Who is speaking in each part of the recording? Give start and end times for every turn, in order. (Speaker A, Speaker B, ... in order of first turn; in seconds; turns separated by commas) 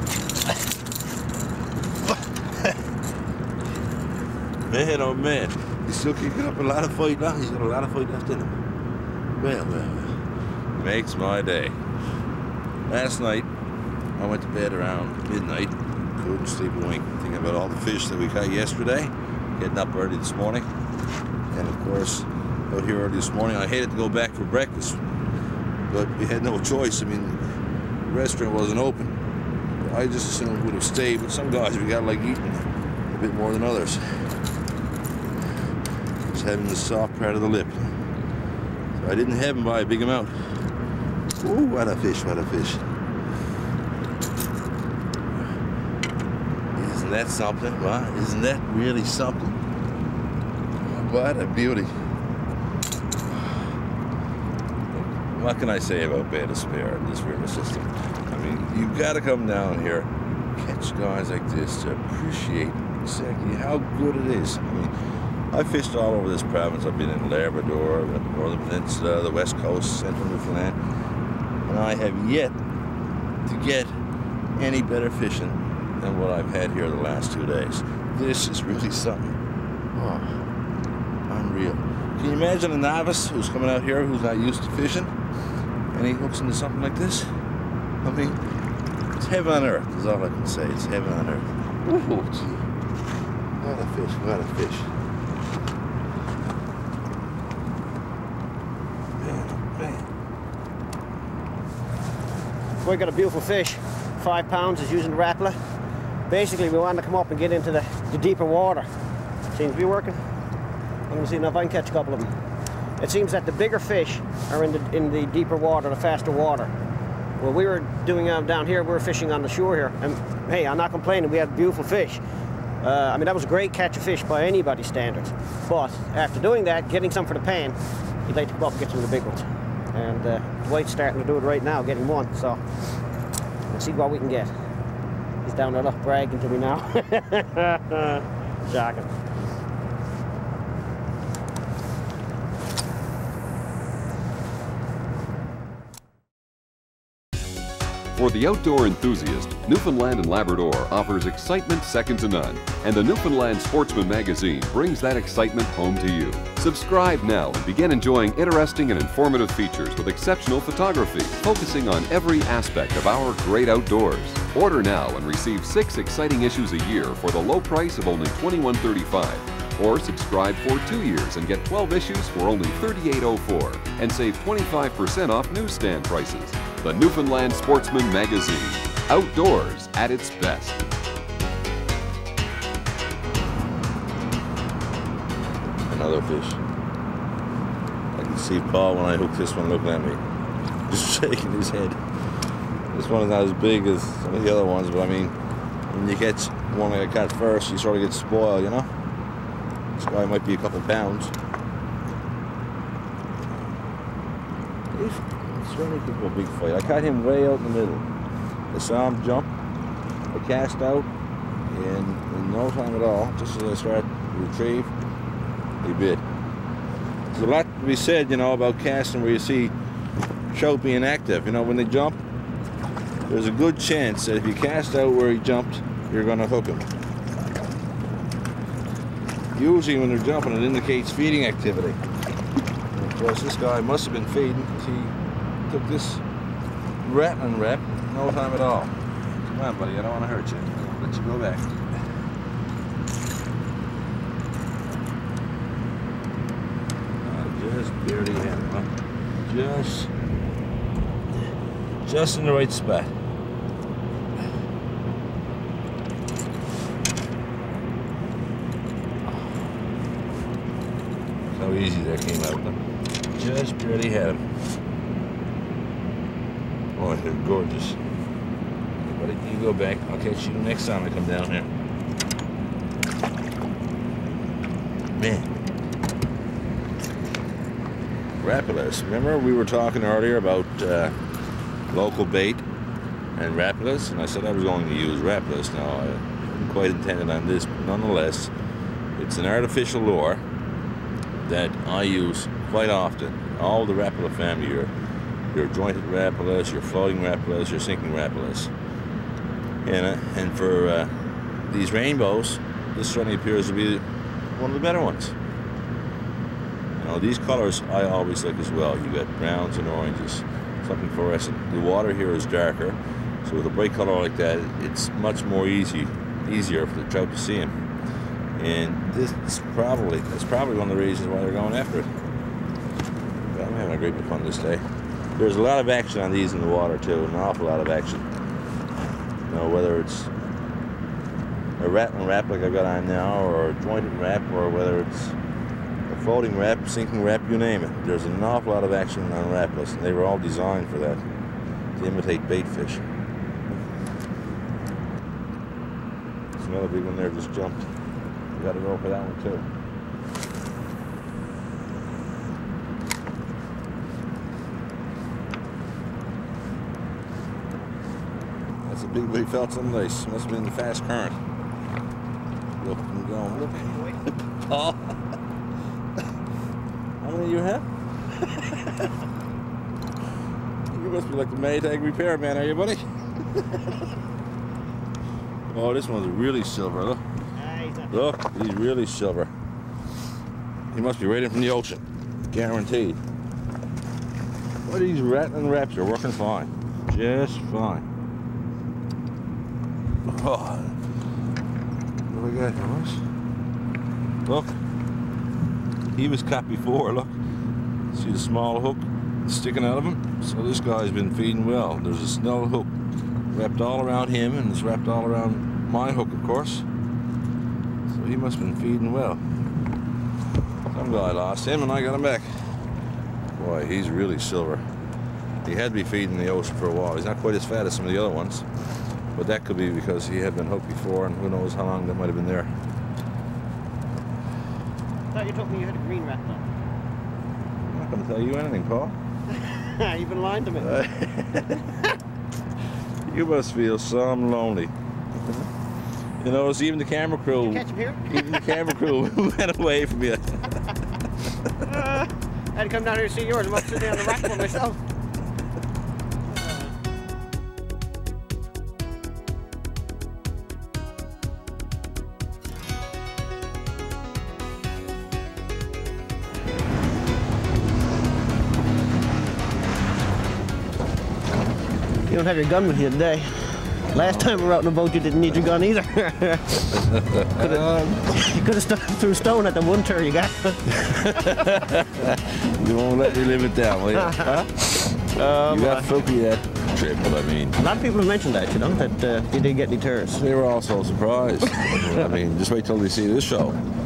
Speaker A: 2.0-2.8, Speaker A: 4.7-8.6, Speaker A: 9.4-10.2, Speaker A: 10.7-11.8, Speaker A: 12.9-13.5, Speaker A: 14.2-20.7, Speaker A: 21.5-25.0, Speaker A: 25.9-27.4, Speaker A: 28.0-29.2, Speaker A: 29.8-34.3, Speaker A: 36.3-37.9, Speaker A: 38.9-40.3, Speaker A: 41.4-42.9, Speaker A: 46.8-49.6, Speaker A: 50.8-51.9, Speaker A: 53.2-53.7, Speaker A: 54.9-64.9, Speaker A: 65.5-70.8, Speaker A: 71.6-72.6, Speaker A: 73.4-73.9, Speaker A: 74.5-79.4, Speaker A: 79.9-80.5, Speaker A: 81.3-85.1, Speaker A: 85.9-87.3, Speaker A: 88.0-88.4, Speaker A: 89.2-92.7, Speaker A: 93.6-94.9, Speaker A: 99.2-100.1, Speaker B: 102.8-105.6, Speaker B: 106.3-108.9, Speaker B: 109.5-110.3, Speaker B: 111.1-112.3, Speaker B: 113.0-116.7, Speaker B: 117.4-122.2, Speaker B: 122.8-132.6, Speaker B: 133.7-134.5, Speaker B: 135.4-139.1, Speaker C: 148.1-180.9, Speaker A: 185.9-186.6, Speaker A: 188.1-190.2, Speaker A: 190.9-192.0, Speaker A: 192.9-195.3, Speaker A: 195.9-198.9, Speaker A: 199.9-201.3, Speaker A: 203.4-203.7, Speaker A: 204.9-208.1, Speaker A: 208.7-209.5, Speaker A: 210.3-211.1, Speaker A: 211.7-214.9, Speaker A: 215.8-216.2, Speaker A: 217.3-219.7, Speaker A: 220.5-222.2, Speaker A: 223.3-226.9, Speaker A: 229.5-232.0, Speaker A: 232.9-235.2, Speaker A: 235.7-236.2, Speaker A: 237.0-241.8, Speaker A: 247.2-248.9, Speaker A: 249.5-250.1, Speaker A: 252.0-253.1, Speaker A: 261.5-262.8, Speaker A: 263.3-264.5, Speaker A: 266.9-268.0, Speaker A: 269.1-271.7, Speaker A: 275.1-275.5, Speaker A: 278.4-281.1, Speaker A: 281.9-282.6, Speaker A: 283.3-288.5, Speaker A: 289.1-290.4, Speaker A: 291.4-294.9, Speaker A: 295.5-298.7, Speaker A: 299.8-301.1, Speaker A: 301.7-304.0, Speaker A: 304.6-305.4, Speaker A: 307.0-317.8, Speaker A: 318.6-322.1, Speaker A: 323.5-324.8, Speaker A: 325.4-328.3, Speaker A: 329.4-330.3, Speaker A: 331.8-335.4, Speaker A: 336.1-341.2, Speaker A: 341.9-343.1, Speaker A: 346.6-347.8, Speaker A: 348.5-349.7, Speaker A: 358.8-361.4, Speaker A: 362.8-364.0, Speaker B: 363.7-364.1, Speaker A: 364.6-365.1, Speaker A: 367.2-369.0, Speaker A: 370.9-374.0, Speaker A: 375.7-377.2, Speaker B: 377.6-378.2, Speaker A: 378.1-379.5, Speaker A: 380.9-383.2, Speaker A: 384.8-388.1, Speaker A: 390.2-391.0, Speaker A: 392.3-393.2, Speaker A: 394.4-394.7, Speaker A: 396.1-397.3, Speaker A: 398.1-402.9, Speaker A: 403.5-406.8, Speaker A: 408.1-409.4, Speaker A: 410.9-412.5, Speaker A: 413.6-414.8, Speaker A: 415.6-418.7, Speaker A: 419.3-422.7, Speaker B: 425.3-426.6, Speaker A: 427.9-429.1, Speaker B: 429.5-430.9, Speaker A: 430.8-432.1, Speaker A: 433.2-435.7, Speaker A: 436.4-440.8, Speaker B: 437.6-438.6, Speaker B: 441.9-445.0, Speaker A: 443.9-444.4, Speaker B: 446.5-446.9, Speaker B: 462.3-467.0, Speaker A: 466.9-468.2, Speaker B: 467.6-470.8, Speaker A: 470.9-477.8, Speaker B: 474.1-474.5, Speaker B: 475.3-476.1, Speaker B: 477.8-480.4, Speaker A: 480.3-483.8